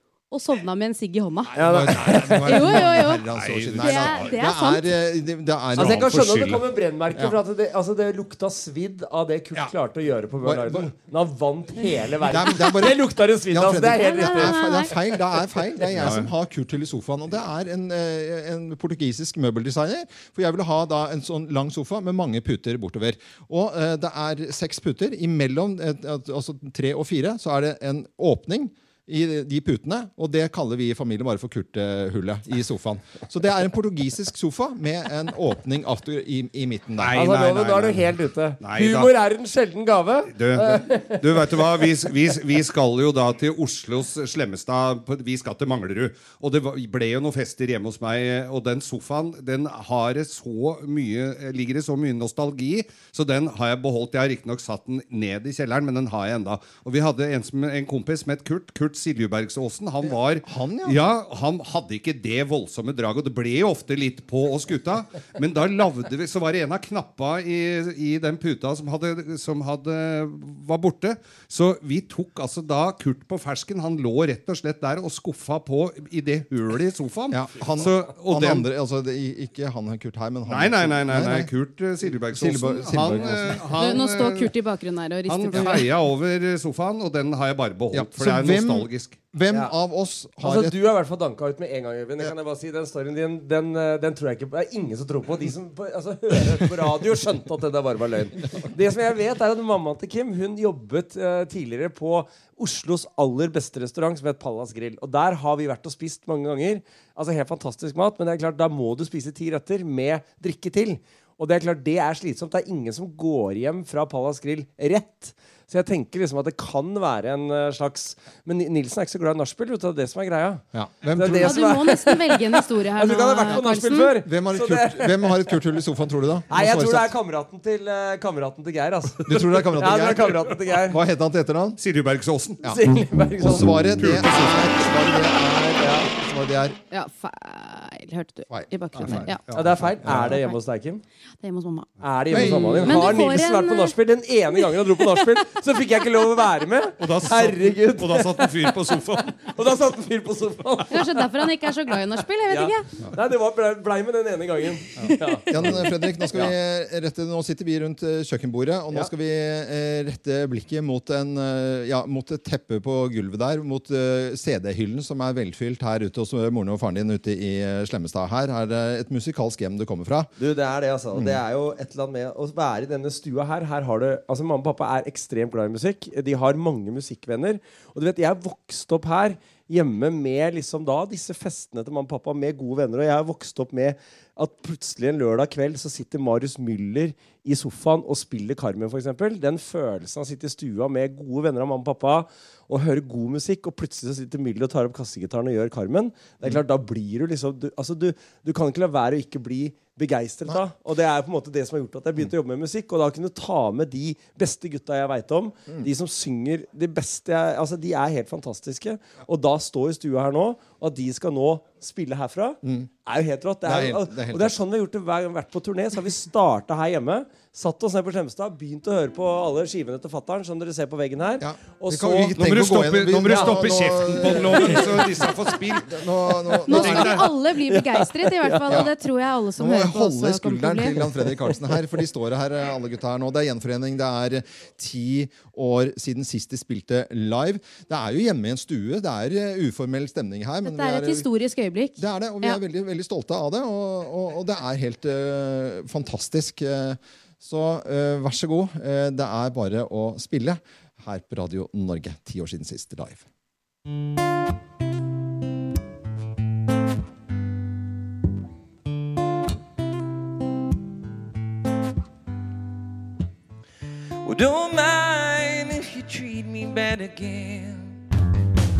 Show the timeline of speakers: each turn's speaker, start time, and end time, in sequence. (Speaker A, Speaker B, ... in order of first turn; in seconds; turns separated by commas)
Speaker A: 0.3-1.5, Speaker B: 1.5-2.6, Speaker C: 1.6-6.6, Speaker D: 1.9-4.4, Speaker A: 2.5-3.2, Speaker A: 3.8-4.9, Speaker B: 5.8-14.5, Speaker C: 10.4-10.9, Speaker C: 12.3-37.9, Speaker A: 14.0-15.0, Speaker D: 15.9-16.3, Speaker D: 37.0-37.9, Speaker B: 37.1-41.6, Speaker D: 38.6-39.1, Speaker D: 40.3-78.7, Speaker C: 60.5-61.0, Speaker C: 77.3-81.5, Speaker D: 80.5-84.5, Speaker C: 82.3-83.7, Speaker A: 83.8-85.9, Speaker D: 85.3-89.2, Speaker C: 87.9-90.7, Speaker B: 90.4-125.6, Speaker C: 120.7-121.9, Speaker A: 121.4-124.1, Speaker C: 123.5-127.1, Speaker B: 126.5-131.0, Speaker C: 129.2-131.8, Speaker D: 131.8-132.7, Speaker B: 132.7-133.7, Speaker C: 133.4-136.8, Speaker D: 134.0-134.8, Speaker A: 136.9-139.4, Speaker C: 138.5-139.3, Speaker D: 139.0-139.7, Speaker B: 139.5-141.0, Speaker C: 140.0-140.4, Speaker A: 141.4-142.0, Speaker B: 142.0-151.2, Speaker C: 142.3-143.1, Speaker A: 142.8-143.9, Speaker D: 147.0-149.5, Speaker A: 150.9-152.9, Speaker B: 152.5-156.5, Speaker C: 155.5-170.3, Speaker B: 170.4-222.4, Speaker C: 212.6-212.9, Speaker C: 213.7-214.6, Speaker C: 221.4-227.3, Speaker D: 222.4-225.9, Speaker B: 223.2-223.6, Speaker B: 224.4-225.3, Speaker A: 226.7-231.1, Speaker D: 226.7-227.3, Speaker B: 227.6-228.9, Speaker C: 228.7-228.9, Speaker C: 229.6-241.3, Speaker A: 240.6-242.6, Speaker C: 242.0-253.3, Speaker E: 264.2-267.9